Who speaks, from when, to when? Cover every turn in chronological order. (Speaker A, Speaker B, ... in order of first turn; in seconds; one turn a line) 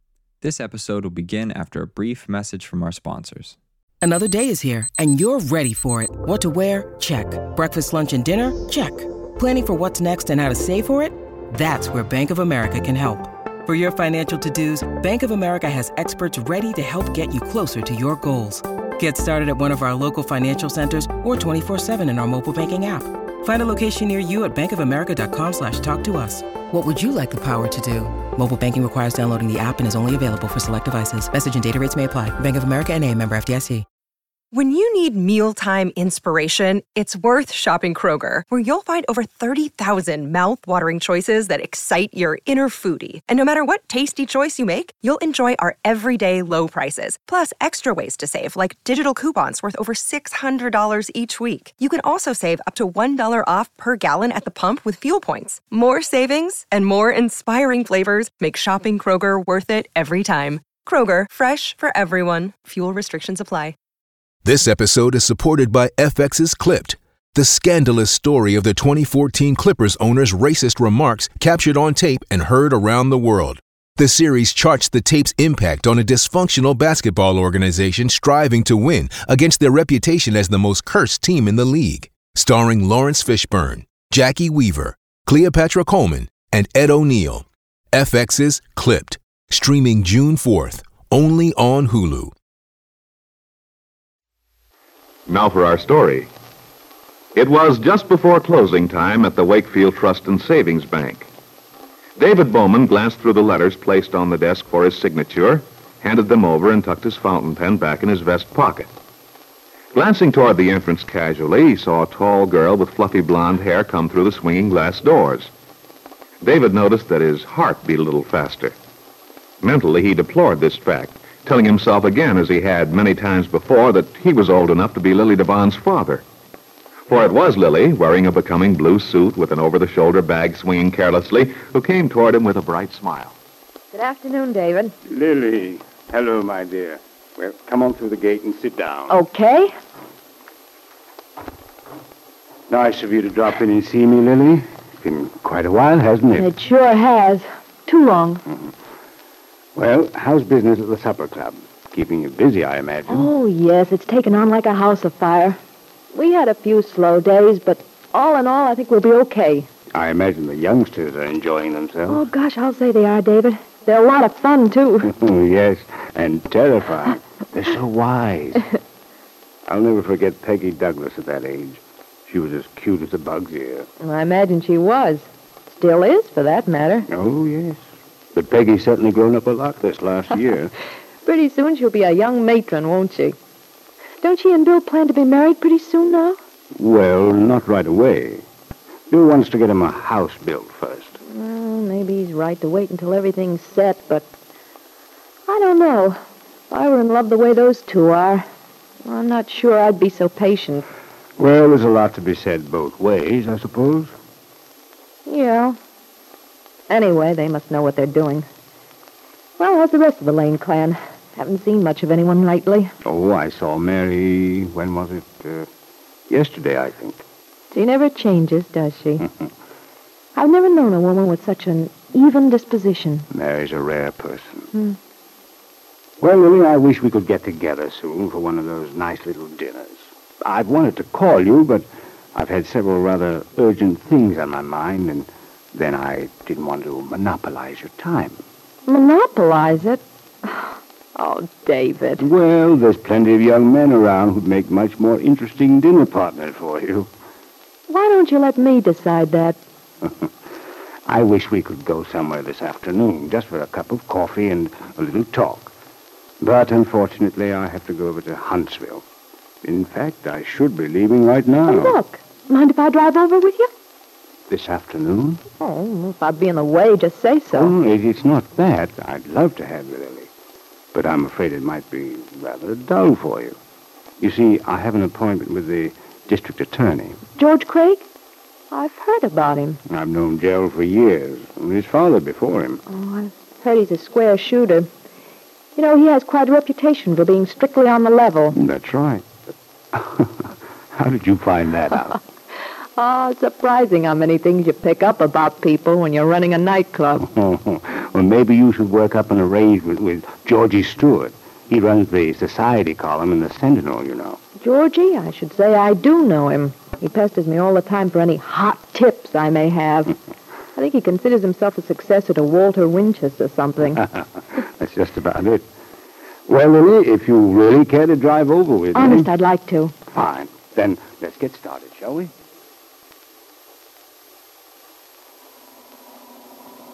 Speaker A: 0.4-3.6
Speaker B: 4.0-33.9
Speaker C: 34.5-63.7
Speaker D: 64.4-92.3
Speaker E: 95.3-96.3
Speaker E: 97.3-101.3
Speaker E: 102.2-108.9
Speaker E: 109.9-115.5
Speaker E: 116.4-118.8
Speaker E: 119.6-126.2
Speaker E: 127.1-133.3
Speaker F: 133.9-134.9
Speaker G: 135.1-139.2
Speaker F: 139.1-139.7
Speaker G: 142.7-146.5
Speaker F: 146.4-148.4
Speaker G: 149.7-153.3
Speaker F: 153.1-155.6
Speaker F: 156.1-159.7
Speaker G: 159.9-162.2
Speaker F: 162.1-165.1
Speaker G: 165.1-168.7
Speaker G: 169.7-173.8
Speaker F: 174.0-177.1
Speaker G: 177.1-177.8
Speaker G: 178.3-180.7
Speaker F: 181.2-183.3
Speaker F: 184.2-186.4
Speaker G: 186.7-188.4
Speaker G: 189.1-191.2
Speaker F: 191.3-194.2
Speaker F: 195.5-198.4
Speaker F: 199.0-200.8
Speaker G: 201.4-204.1
Speaker F: 205.2-205.8
Speaker F: 206.9-208.5
Speaker F: 209.6-212.9
Speaker G: 213.0-215.7
Speaker G: 216.3-217.2
Speaker F: 217.7-219.3
Speaker F: 220.3-223.3
Speaker G: 223.3-224.7
Speaker G: 226.2-238.4
Speaker F: 238.8-242.2
Speaker G: 242.2-247.1
Speaker F: 247.9-249.6
Speaker G: 250.0-250.3
Speaker G: 251.1-255.7
Speaker G: 256.4-259.0
Speaker G: 259.6-261.9
Speaker F: 261.7-263.7
Speaker G: 264.5-265.4
Speaker F: 265.6-267.7
Speaker G: 267.5-270.3
Speaker G: 270.9-273.6
Speaker G: 274.2-277.2
Speaker F: 277.4-278.1
Speaker F: 278.7-279.8
Speaker G: 279.9-282.8
Speaker F: 282.9-284.9
Speaker F: 285.8-288.6
Speaker G: 288.5-289.3
Speaker G: 289.9-292.2
Speaker F: 292.9-297.3
Speaker G: 297.2-304.4
Speaker F: 304.6-310.1
Speaker F: 310.7-314.0
Speaker G: 314.6-315.6
Speaker G: 316.5-319.3
Speaker F: 318.9-319.9
Speaker G: 320.1-322.3